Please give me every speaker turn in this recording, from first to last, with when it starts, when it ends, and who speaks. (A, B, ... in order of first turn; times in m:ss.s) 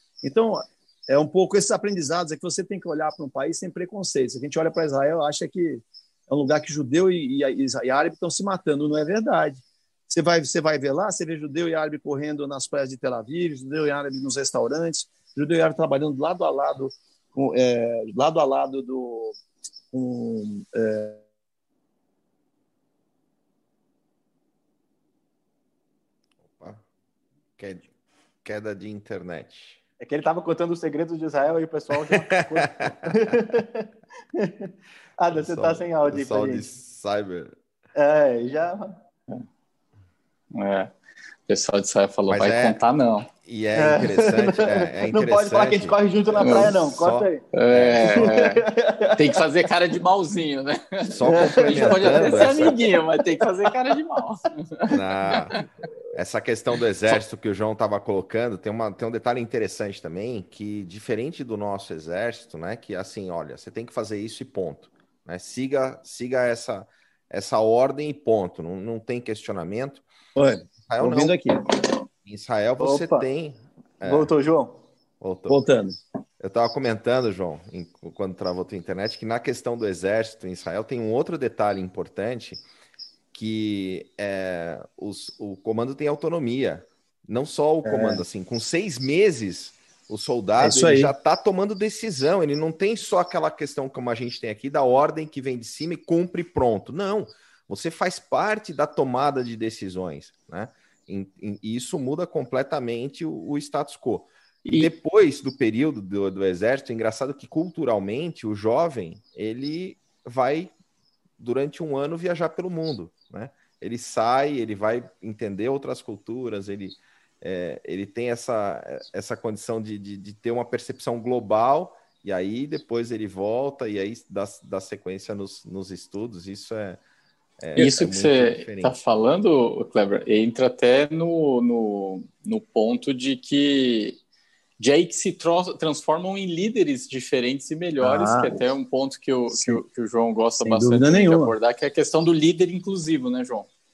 0:00.2-0:19.4 A
0:19.9-0:21.2 A
0:26.6-0:26.8 B
0:27.6-0:27.9 B
0:28.4-0:29.8 B
0:30.0-0:36.7 C
0:32.0-0:33.1 B
0:35.3-0:37.6 B
0:37.9-0:39.0 C
0:40.5-0:40.9 D
0:41.5-0:43.3 D
0:42.3-0:42.8 B
0:43.4-0:48.3 B
0:43.8-0:47.4 C
0:46.4-0:46.7 D
0:47.5-0:55.6 D
0:48.0-0:49.4 C
0:51.1-0:52.8 B
0:51.2-0:52.6 C
0:54.9-1:10.0 B
1:10.3-1:11.6 A
1:10.9-1:11.4 B
1:12.2-1:14.3 B
1:12.8-1:13.3 C
1:14.0-1:14.8 C
1:15.2-1:15.6 B
1:15.5-1:16.0 A
1:16.4-1:22.6 B
1:23.3-1:50.7 B
1:27.8-1:28.2 A
1:30.6-1:31.1 A
1:44.6-1:44.9 D
1:51.4-2:07.0 B
2:07.6-2:08.9 B
2:07.8-2:14.2 D
2:14.8-2:23.7 D
2:18.0-2:18.6 A
2:19.5-2:19.8 A
2:20.6-2:21.5 A